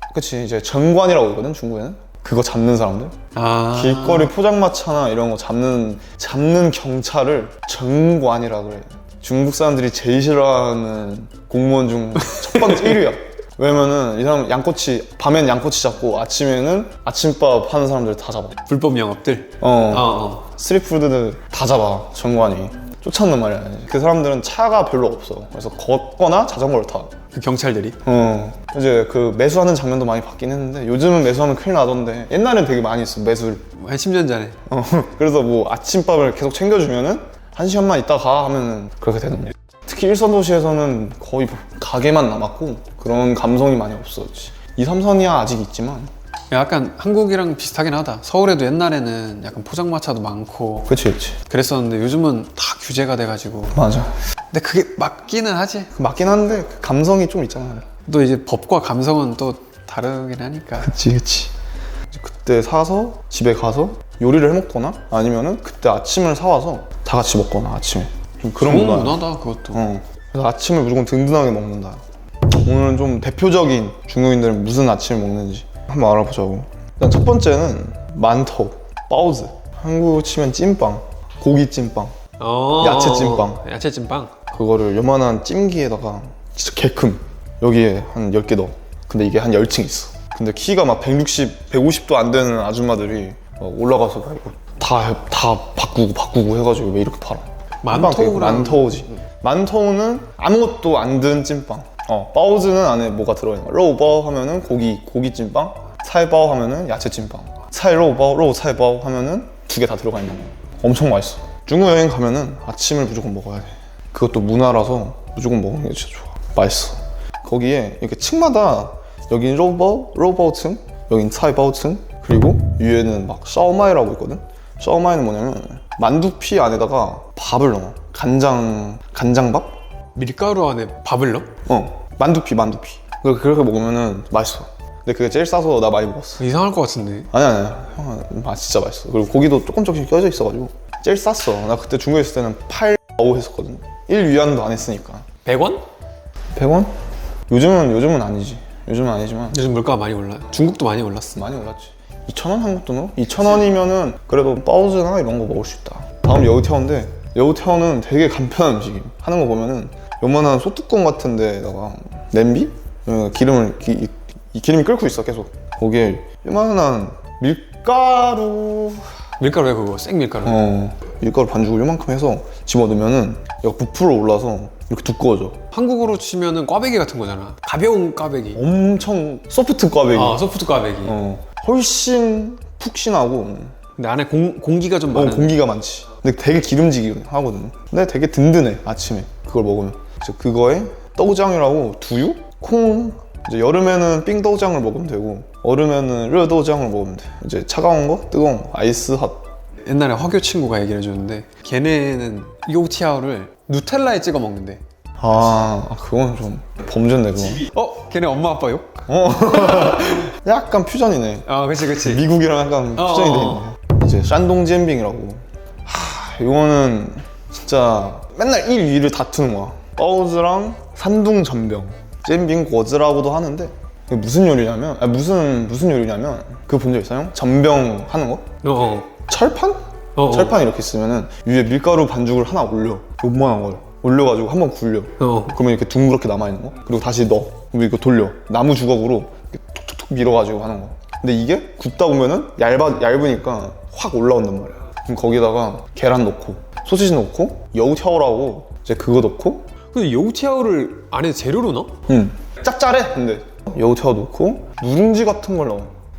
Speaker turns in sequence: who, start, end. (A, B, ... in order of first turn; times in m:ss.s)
0:00.1-0:03.2 A
0:03.4-0:04.3 B
0:03.7-0:18.6 A
0:12.3-0:13.0 B
0:18.7-0:20.5 B
0:19.6-0:27.1 A
0:27.3-0:28.0 B
0:28.0-0:33.7 A
0:33.8-0:34.6 B
0:34.7-0:46.1 A
0:46.5-0:50.9 B
0:50.9-0:51.4 A
0:51.5-0:53.8 B
0:53.7-0:54.2 A
0:54.5-0:55.9 B
0:55.9-0:57.9 A
0:58.1-1:00.9 B
1:00.8-1:01.5 A
1:02.1-1:09.2 A
1:08.6-1:09.9 B
1:09.7-1:22.2 A
1:22.4-1:24.4 B
1:22.8-1:23.6 A
1:24.5-2:09.8 A
1:37.8-1:39.0 B
2:10.2-2:11.5 B
2:11.7-2:16.4 A
2:16.4-2:17.3 B
2:17.3-2:25.3 A
2:25.4-2:25.8 B
2:26.6-2:26.9 A
2:27.5-2:29.6 A
2:29.5-2:31.5 B
2:31.4-2:49.1 A
2:49.4-2:50.6 B
2:50.4-2:55.6 A
2:55.7-2:58.6 B
2:58.6-3:00.4 A
3:00.1-3:01.2 B
3:01.0-3:03.8 A
3:04.0-3:05.6 B
3:05.1-3:19.4 A
3:19.8-3:24.8 B
3:25.2-3:27.7 A
3:27.6-3:30.3 B
3:29.1-3:48.5 A
3:31.5-3:32.2 B
3:33.0-3:33.7 B
3:48.6-3:49.1 B
3:49.1-4:09.7 A
3:50.2-3:50.6 B
3:55.2-3:55.6 B
4:09.9-4:11.9 B
4:12.1-4:15.9 A